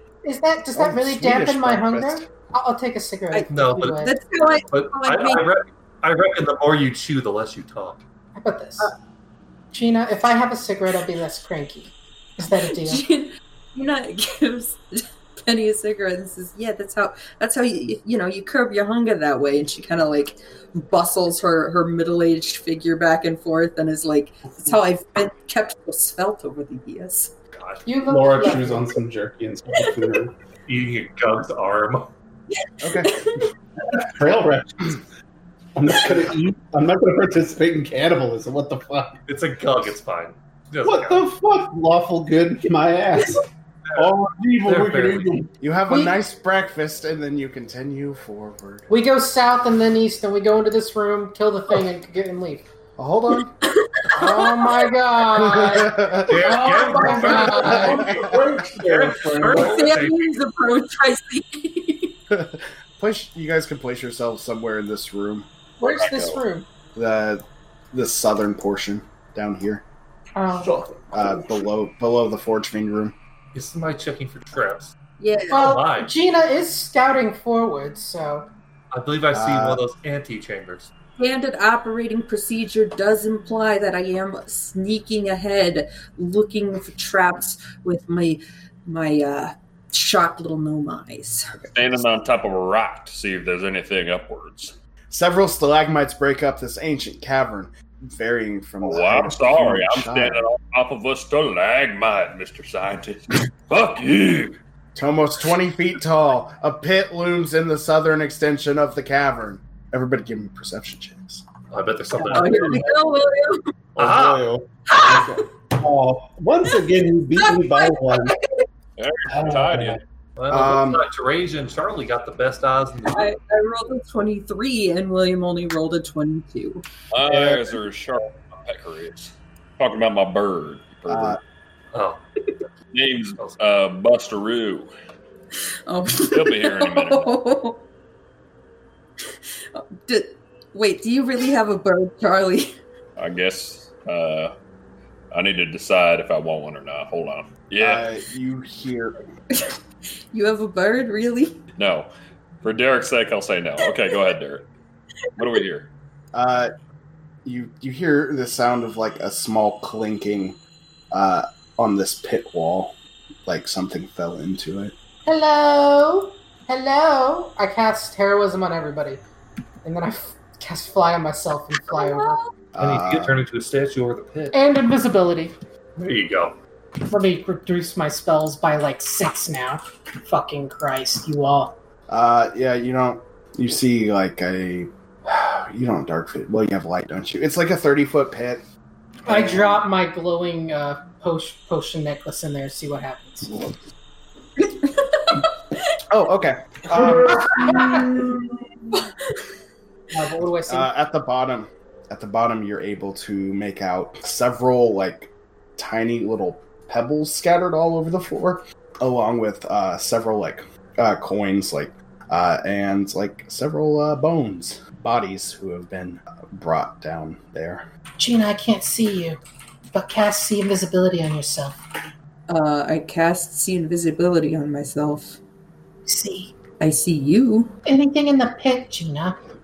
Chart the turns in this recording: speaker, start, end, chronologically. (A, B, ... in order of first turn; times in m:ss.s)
0:00.2-0:04.1 A
0:00.8-0:02.3 B
0:03.3-0:05.5 C
0:03.5-0:04.0 D
0:04.7-0:08.0 D
0:08.4-0:08.9 A
0:09.7-0:13.0 A
0:12.7-0:27.3 C
0:27.5-0:27.9 D
0:27.9-0:29.0 A
0:28.1-0:30.3 E
0:30.7-0:32.1 D
0:32.6-0:33.5 C
0:32.8-0:33.2 B
0:33.9-0:35.0 E
0:35.8-0:39.2 E
0:39.3-0:41.3 D
0:40.8-0:43.4 E
0:44.0-0:45.5 E
0:44.6-0:45.4 D
0:45.6-0:48.9 B
0:45.9-0:46.2 A
0:48.9-0:52.7 A
0:53.0-0:53.6 B
0:53.8-0:54.5 C
0:54.2-0:58.0 A
0:54.2-0:54.6 B
0:55.3-0:56.7 B
0:56.2-1:00.3 D
0:56.9-0:59.9 E
0:57.5-0:58.4 B
0:59.5-1:02.2 C
1:02.3-1:05.5 B
1:05.8-1:06.7 A
1:05.8-1:06.4 F
1:07.0-1:09.8 B
1:10.4-1:10.8 A
1:10.6-1:11.6 E
1:11.1-1:13.2 B
1:13.5-1:15.0 D
1:15.2-1:15.7 C
1:15.5-1:18.5 A
1:15.5-1:16.1 D
1:18.9-1:20.9 D
1:19.3-1:19.8 B
1:21.2-1:31.6 C
1:31.6-1:32.0 B
1:31.7-1:34.8 F
1:35.1-1:40.4 B
1:38.8-1:44.6 F
1:45.0-1:51.4 B
1:51.7-1:52.9 D
1:52.2-1:52.9 E
1:52.3-1:53.7 C
1:54.0-1:54.5 D
1:54.0-1:58.4 E
1:54.9-1:55.4 C
1:57.3-1:58.7 C
1:59.0-2:00.0 F
1:59.3-2:00.0 E
2:00.4-2:03.3 D
2:00.5-2:01.0 B
2:03.1-2:06.8 C
2:07.1-2:11.4 F
2:07.3-2:07.6 E
2:11.1-2:11.4 B
2:11.9-2:12.2 D
2:12.9-2:14.9 F
2:15.9-2:17.8 C
2:16.2-2:17.3 F
2:19.2-2:22.8 C
2:23.2-2:24.5 F
2:25.3-2:28.1 F
2:27.8-2:29.2 B
2:30.3-2:31.6 C
2:31.8-2:32.1 F
2:32.6-2:34.7 F
2:33.8-2:34.2 C
2:35.4-2:35.9 F
2:36.3-2:36.7 B
2:37.4-2:40.6 B
2:41.1-2:44.9 B
2:45.3-2:49.2 A
2:49.8-2:52.4 A
2:51.9-2:52.5 C
2:52.7-2:53.4 B
2:52.8-2:54.6 D
2:54.5-2:55.6 A
2:56.0-2:56.6 D
2:57.1-3:01.8 A
3:02.1-3:08.7 B
3:09.2-3:09.8 B
3:09.3-3:13.7 A
3:14.6-3:15.4 C
3:16.1-3:17.5 B
3:17.3-3:19.1 C
3:17.6-3:18.1 A
3:20.1-3:20.9 A
3:20.7-3:37.9 B
3:38.2-3:39.4 A
3:39.9-3:41.8 A
3:42.5-3:45.4 C
3:46.1-3:46.6 A
3:46.8-3:47.7 C
3:47.9-3:49.4 A